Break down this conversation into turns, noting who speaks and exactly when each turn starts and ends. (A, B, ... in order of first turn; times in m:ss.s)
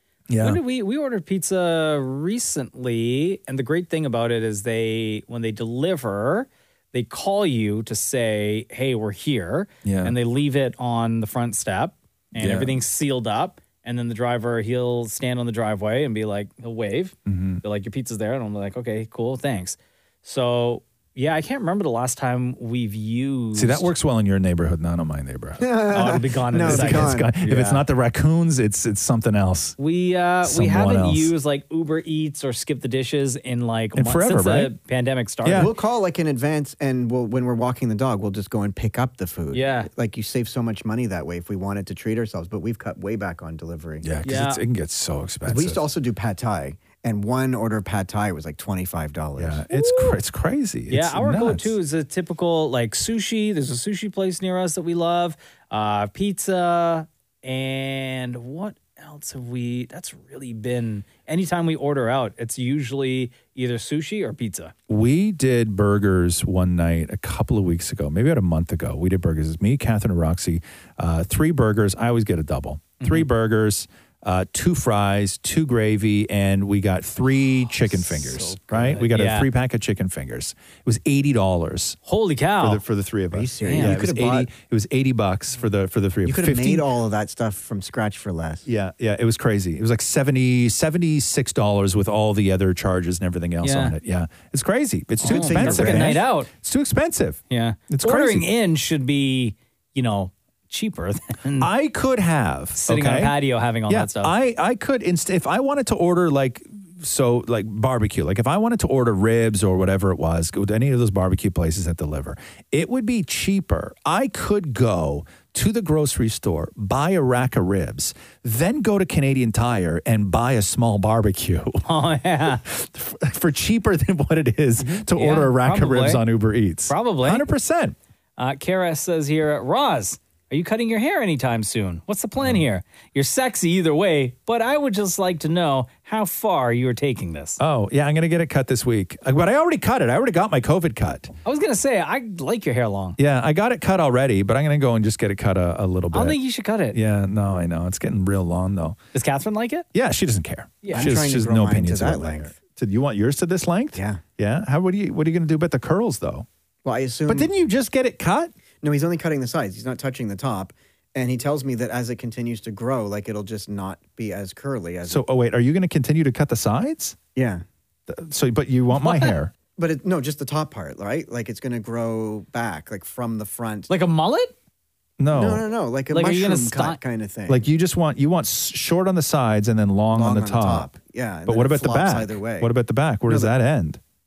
0:00.3-0:00.6 A
0:00.4-0:23.9 B
0:09.8-0:10.2 A
0:12.4-0:12.7 A
0:17.3-0:17.6 A
0:23.6-0:25.6 A
0:25.6-0:27.3 C
0:25.9-0:27.8 B
0:26.6-0:29.8 A
0:29.8-0:35.7 B
0:30.4-0:31.3 A
0:34.0-0:34.7 A
0:35.4-0:35.7 A
0:35.5-0:44.1 C
0:39.5-0:39.9 B
0:44.0-0:45.8 A
0:44.2-0:44.6 B
0:45.4-0:49.6 C
0:49.4-0:51.7 A
0:49.7-0:50.2 B
0:50.9-1:04.7 B
1:04.9-1:22.0 A
1:13.0-1:13.3 B
1:17.8-1:19.5 B
1:22.0-1:22.8 B
1:22.6-1:26.8 A
1:23.3-1:24.5 C
1:23.6-1:24.0 B
1:26.2-1:28.6 C
1:28.6-1:38.4 A
1:33.6-1:33.9 B
1:35.2-1:36.2 C
1:35.2-1:36.5 B
1:37.5-1:41.7 B
1:41.6-1:43.4 A
1:42.7-1:44.3 B
1:43.9-2:01.8 A
2:01.9-2:02.6 B
2:02.6-2:07.9 A
2:04.8-2:06.2 B
2:06.9-2:07.4 B
2:08.4-2:17.6 B
2:17.6-2:21.3 A
2:21.4-2:23.2 B
2:23.2-2:26.4 A
2:26.1-2:27.0 B
2:26.9-2:29.0 A
2:29.1-2:29.8 B
2:29.9-2:36.4 A
2:30.8-2:31.1 B
2:30.9-2:32.6 C
2:33.9-2:34.2 C
2:36.8-2:37.5 C
2:37.3-2:38.5 A
2:38.8-2:45.2 C
2:45.1-2:47.2 A
2:47.4-2:47.6 C
2:48.1-2:49.5 A
2:49.0-2:49.4 B
2:49.7-2:53.9 C
2:53.9-2:54.5 B
2:55.2-2:55.6 A
2:55.3-2:57.7 C
2:56.1-2:57.0 B
2:57.5-3:00.9 A
3:00.1-3:02.7 C
3:01.5-3:04.0 A
3:03.3-3:03.5 C